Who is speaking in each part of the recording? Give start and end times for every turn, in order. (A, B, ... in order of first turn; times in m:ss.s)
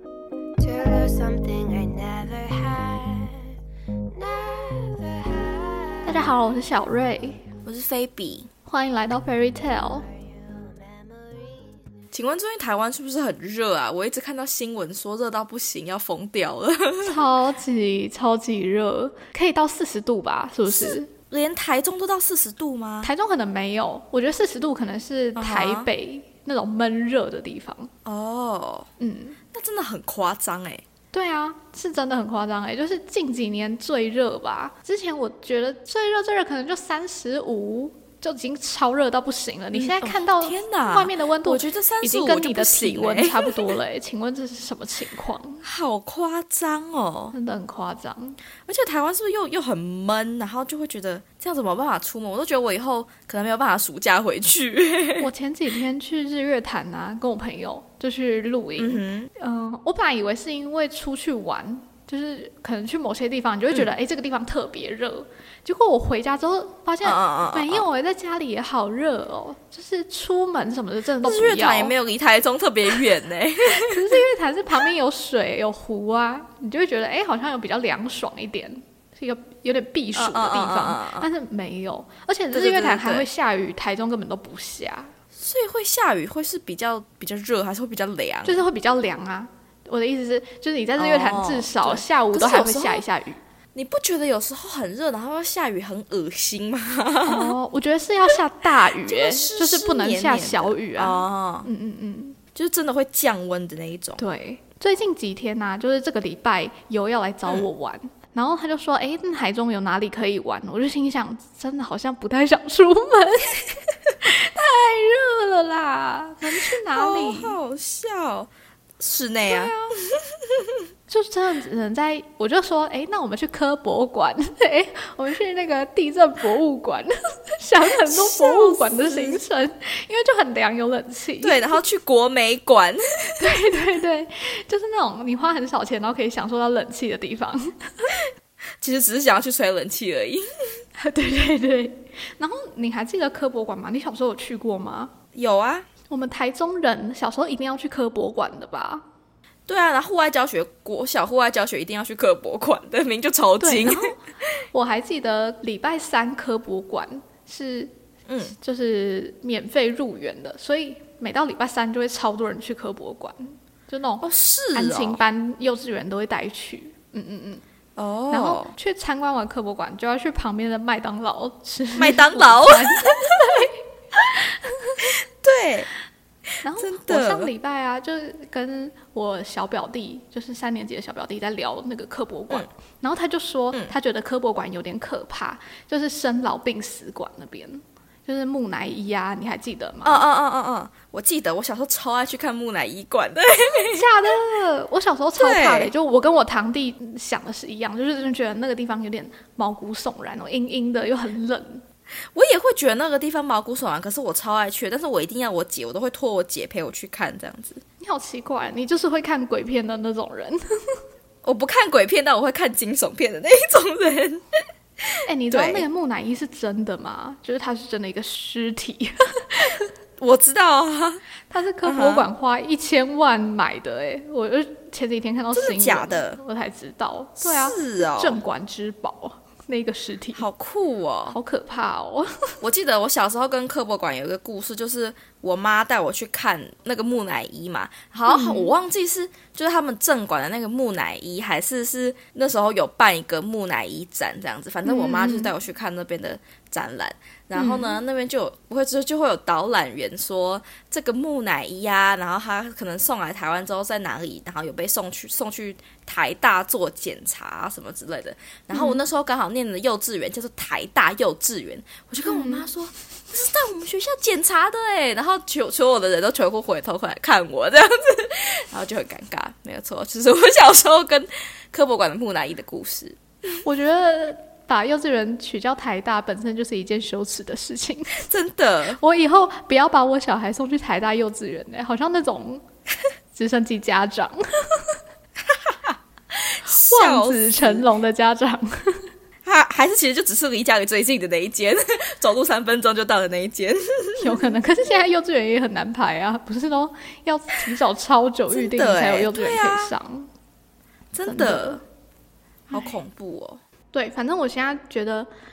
0:00.6-0:03.3 A
0:04.1-0:06.2 A
0:06.0-0:07.4 B
0:07.6-0:08.5 C
0:08.6-0:10.0 B
0:10.0-0:11.8 A
0:12.1-0:17.2 C
0:17.0-0:21.1 B
0:20.7-0:23.1 C
0:23.0-0:27.9 B
0:25.4-0:25.9 C
0:28.0-0:28.9 C
0:29.0-0:29.4 B
0:29.5-0:30.8 C
0:31.1-0:45.6 B
0:39.7-0:43.6 C
0:45.6-0:47.3 C
0:47.3-0:48.4 B
0:48.6-0:55.3 C
0:55.2-1:11.9 B
0:58.8-0:59.3 C
1:07.0-1:07.8 C
1:11.2-1:14.2 C
1:13.8-1:25.1 B
1:20.1-1:21.3 C
1:22.5-1:23.3 C
1:25.3-1:28.6 C
1:28.4-1:33.4 B
1:31.0-1:33.0 C
1:33.7-1:37.6 C
1:37.2-1:42.4 B
1:39.0-1:41.7 C
1:42.5-1:44.2 C
1:44.2-1:53.6 B
1:54.2-1:57.6 B
1:56.8-1:59.7 C
1:59.5-1:59.9 B
2:00.5-2:00.8 C
2:01.1-2:11.8 B
2:08.0-2:09.4 C
2:11.4-2:13.4 C
2:13.4-2:18.1 B
2:18.8-2:20.8 C
2:21.0-2:25.1 B
2:25.3-2:25.9 C
2:26.1-2:29.0 B
2:29.6-2:34.1 C
2:33.6-2:34.2 B
2:34.7-2:37.9 B
2:38.3-2:38.5 C
2:38.5-2:47.6 B
2:44.2-2:45.2 C
2:48.0-2:48.7 C
2:48.3-2:55.0 B
2:52.0-2:53.0 C
2:55.0-2:55.9 C
2:56.6-3:10.2 B
2:56.8-2:57.5 C
3:10.0-3:14.1 C
3:13.9-3:21.8 B
3:15.4-3:15.9 C
3:22.3-3:27.8 C
3:28.0-3:31.0 B
3:31.4-3:34.5 C
3:35.0-3:35.8 C
3:35.2-3:39.8 B
3:40.2-3:41.2 C
3:41.5-3:50.4 B
3:41.8-3:42.3 C
3:45.5-3:46.4 C
3:47.4-3:48.4 C
3:50.4-3:51.4 C
3:51.3-3:52.6 B
3:52.6-4:33.2 C
3:58.3-3:58.7 B
4:04.8-4:05.5 B
4:07.5-4:08.0 B
4:18.7-4:19.0 B
4:22.2-4:22.7 B
4:33.6-4:38.3 B
4:38.3-4:39.0 C
4:39.0-4:42.6 B
4:43.3-4:45.0 B
4:45.5-4:46.0 C
4:46.5-4:47.8 C
4:46.8-4:49.0 B
4:49.4-4:54.4 C
4:54.2-5:00.3 B
4:58.5-4:59.9 C
5:01.1-5:01.8 C
5:01.2-5:01.8 B
5:02.7-5:03.6 C
5:03.9-5:05.3 B